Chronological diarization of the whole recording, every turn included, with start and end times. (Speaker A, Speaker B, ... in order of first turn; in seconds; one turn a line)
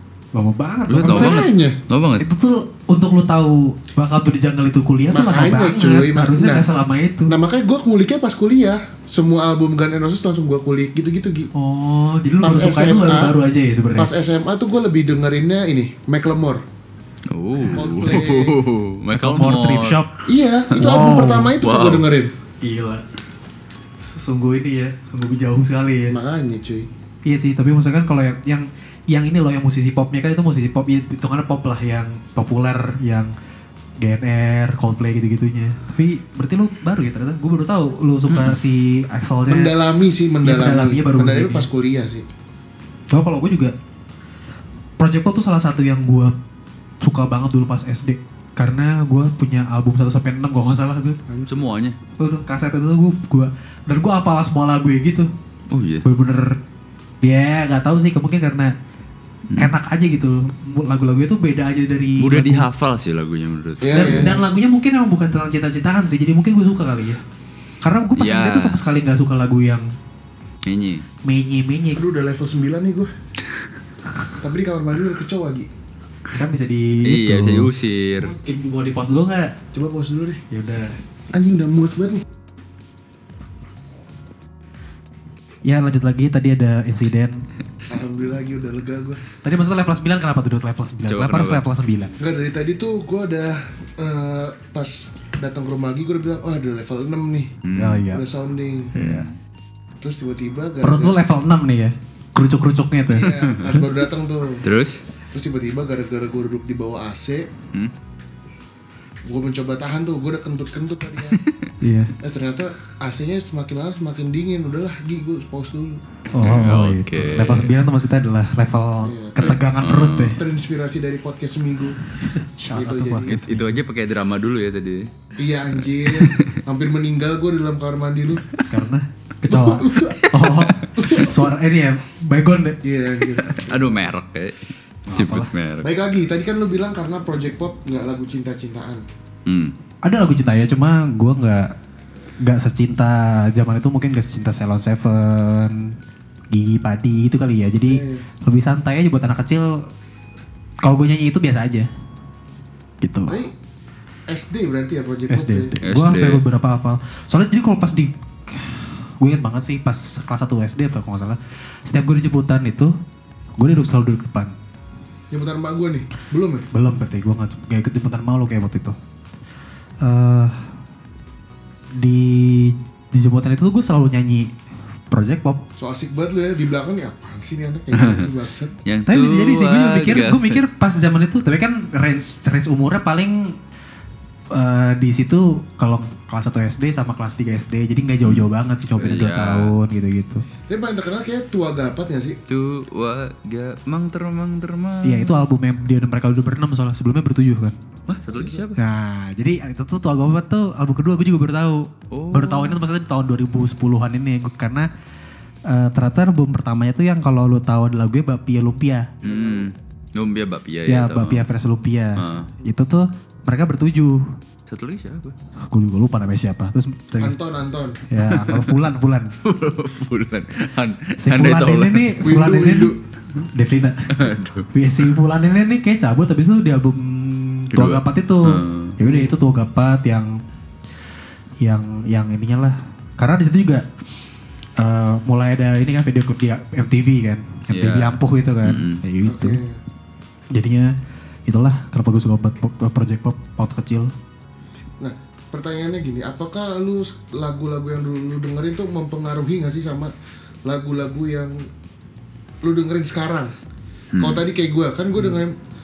Speaker A: 0.3-1.5
Speaker B: 0.9-2.3
Speaker C: 1.0-1.7
Speaker A: 2.2-7.3
Speaker C: 5.1-6.6
Speaker C: 7.2-11.5
Speaker A: 11.5-14.1
Speaker C: 12.4-13.3
Speaker C: 13.9-16.6
Speaker B: 17.3-20.0
Speaker A: 17.6-18.2
Speaker C: 17.7-18.6
Speaker A: 19.1-20.2
Speaker C: 20.3-22.3
Speaker A: 20.7-21.5
Speaker B: 21.6-22.1
Speaker A: 22.6-23.1
Speaker A: 24.0-26.1
Speaker C: 26.1-26.9
Speaker A: 27.2-33.3
Speaker A: 34.0-39.7
Speaker C: 39.5-42.2
Speaker A: 40.4-41.7
Speaker A: 43.1-43.7
Speaker A: 45.0-46.3
Speaker A: 47.0-51.2
Speaker C: 51.3-51.6
Speaker B: 51.5-52.0
Speaker A: 52.2-55.3
Speaker B: 55.7-56.0
Speaker A: 56.0-56.6
Speaker A: 57.2-58.7
Speaker A: 59.6-62.6
Speaker B: 62.2-64.3
Speaker C: 63.8-64.3
Speaker A: 63.9-67.2
Speaker A: 67.8-69.8
Speaker B: 68.2-68.8
Speaker B: 70.7-71.0
Speaker A: 71.2-72.0
Speaker C: 71.9-73.1
Speaker C: 74.4-75.7
Speaker A: 76.3-77.7
Speaker B: 77.0-78.3
Speaker C: 78.2-78.6
Speaker A: 78.3-79.5
Speaker C: 79.7-80.4
Speaker A: 80.5-81.0
Speaker C: 81.3-82.2
Speaker A: 85.6-87.5
Speaker C: 87.9-89.2
Speaker A: 89.4-92.2
Speaker B: 91.0-91.6
Speaker C: 92.2-97.5
Speaker B: 97.6-98.0
Speaker A: 97.8-98.2
Speaker C: 98.1-99.0
Speaker B: 98.9-99.3
Speaker A: 99.0-99.3
Speaker C: 100.0-101.2
Speaker A: 100.8-103.8
Speaker C: 103.1-104.6
Speaker B: 104.6-105.0
Speaker C: 105.3-107.5
Speaker C: 109.3-111.4
Speaker B: 111.3-111.7
Speaker A: 111.8-112.1
Speaker C: 112.2-116.1
Speaker A: 116.3-120.4
Speaker B: 116.4-117.7
Speaker C: 119.0-119.6
Speaker B: 119.8-120.4
Speaker C: 120.4-122.0
Speaker A: 122.2-123.8
Speaker C: 122.7-123.4
Speaker B: 123.4-125.1
Speaker C: 125.4-128.4
Speaker B: 125.8-126.6
Speaker B: 128.4-128.7
Speaker A: 128.7-133.5
Speaker C: 129.5-130.3
Speaker B: 130.2-130.7
Speaker C: 130.9-131.5
Speaker C: 132.8-134.0
Speaker B: 133.5-135.9
Speaker A: 135.1-135.5
Speaker C: 135.8-139.0
Speaker B: 139.4-139.7
Speaker A: 140.0-141.7
Speaker A: 142.4-145.9
Speaker A: 146.5-149.8
Speaker C: 147.8-148.2
Speaker A: 150.8-151.9
Speaker A: 153.0-153.4
Speaker C: 153.3-153.5
Speaker C: 154.3-155.7
Speaker A: 155.3-162.9
Speaker B: 155.8-156.4
Speaker A: 163.6-164.5
Speaker C: 165.3-166.6
Speaker A: 166.7-169.0
Speaker A: 170.0-170.7
Speaker A: 171.9-174.6
Speaker A: 175.1-175.6
Speaker C: 175.8-178.7
Speaker B: 177.9-178.3
Speaker B: 178.8-180.6
Speaker A: 179.1-183.6
Speaker A: 184.5-190.4
Speaker B: 189.0-189.7
Speaker C: 190.7-192.4
Speaker B: 192.5-195.4
Speaker A: 195.0-197.8
Speaker B: 198.1-198.8
Speaker C: 198.3-198.6
Speaker A: 198.8-204.9
Speaker B: 202.1-202.8
Speaker A: 205.7-209.1
Speaker C: 209.2-209.7
Speaker B: 209.2-211.4
Speaker A: 210.9-214.3
Speaker B: 212.2-212.5
Speaker B: 214.7-215.3
Speaker A: 215.7-217.4
Speaker C: 217.2-218.0
Speaker A: 218.1-219.3
Speaker B: 218.3-218.8
Speaker B: 219.4-222.1
Speaker A: 221.2-230.3
Speaker C: 222.2-223.0
Speaker B: 224.1-225.1
Speaker B: 227.7-229.0
Speaker A: 231.6-233.8
Speaker A: 234.8-239.6
Speaker B: 237.7-239.0
Speaker C: 239.2-239.8
Speaker A: 240.5-240.9
Speaker A: 241.5-244.1
Speaker C: 245.0-250.1
Speaker C: 250.6-251.6
Speaker C: 252.6-253.5
Speaker B: 254.1-254.4
Speaker C: 254.2-255.5